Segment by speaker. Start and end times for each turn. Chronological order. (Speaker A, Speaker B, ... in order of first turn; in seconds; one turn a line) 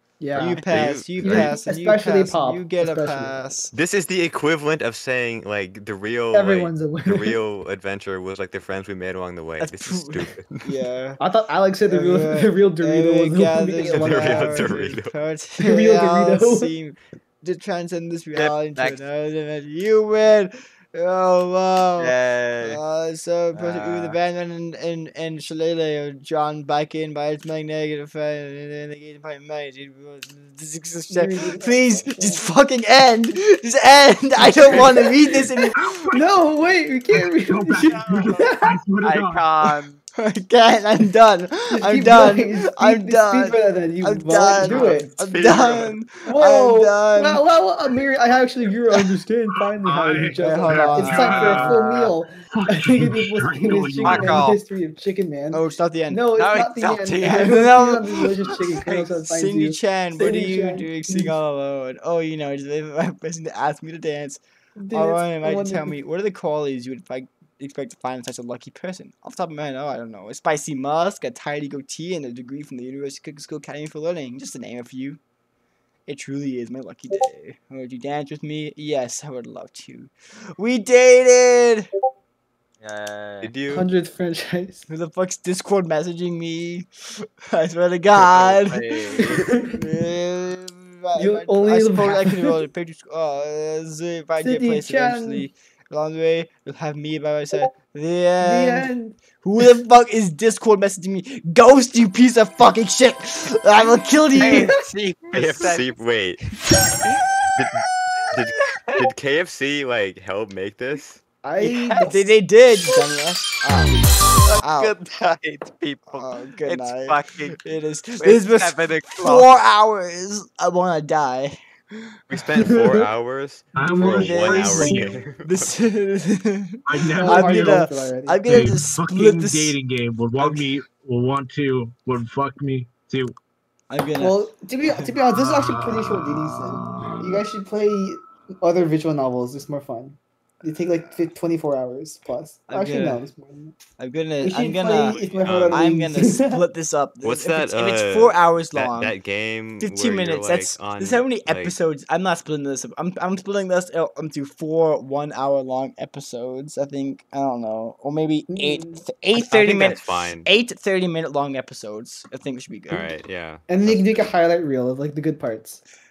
Speaker A: 0.2-3.4
Speaker B: 0.3-1.6
Speaker C: 0.3-3.7
Speaker B: 3.7-10.7
Speaker A: 6.3-7.4
Speaker C: 9.6-11.2
Speaker A: 11.2-14.8
Speaker C: 11.9-36.0
Speaker B: 13.9-15.1
Speaker A: 15.6-16.7
Speaker D: 18.3-19.0
Speaker D: 22.0-22.8
Speaker D: 23.5-24.2
Speaker A: 31.1-32.5
Speaker E: 35.7-36.2
Speaker A: 36.1-38.8
Speaker E: 37.1-39.5
Speaker D: 37.8-40.0
Speaker C: 40.2-47.4
Speaker A: 41.7-45.1
Speaker B: 44.6-45.9
Speaker A: 46.2-61.3
Speaker E: 49.8-54.5
Speaker C: 50.4-52.0
Speaker C: 54.0-54.6
Speaker D: 54.0-54.6
Speaker C: 55.5-56.3
Speaker D: 56.3-57.8
Speaker C: 57.2-64.4
Speaker A: 64.8-66.0
Speaker C: 64.9-75.2
Speaker C: 76.0-81.9
Speaker D: 82.8-83.5
Speaker B: 83.4-83.9
Speaker A: 83.7-84.8
Speaker C: 84.9-86.9
Speaker C: 87.5-104.7
Speaker D: 88.2-89.4
Speaker A: 89.2-89.8
Speaker A: 91.1-92.6
Speaker A: 94.4-95.5
Speaker A: 98.4-99.2
Speaker A: 104.3-104.8
Speaker D: 104.4-105.9
Speaker B: 105.3-106.6
Speaker B: 107.5-111.2
Speaker D: 108.2-109.1
Speaker A: 111.4-112.3
Speaker C: 111.6-115.0
Speaker D: 111.7-112.1
Speaker D: 114.5-117.6
Speaker C: 116.1-121.6
Speaker D: 118.2-119.5
Speaker B: 122.3-125.7
Speaker A: 122.6-123.1
Speaker E: 123.7-125.2
Speaker C: 123.8-129.8
Speaker E: 126.8-127.8
Speaker A: 127.2-128.7
Speaker E: 128.4-133.3
Speaker C: 130.4-130.7
Speaker C: 133.9-135.1
Speaker A: 134.2-143.8
Speaker C: 142.7-143.3
Speaker C: 144.0-149.1
Speaker A: 144.4-146.6
Speaker B: 145.4-145.9
Speaker B: 147.2-151.7
Speaker C: 149.8-163.1
Speaker A: 158.5-159.0
Speaker B: 159.3-160.5
Speaker B: 162.9-164.3
Speaker A: 163.7-165.8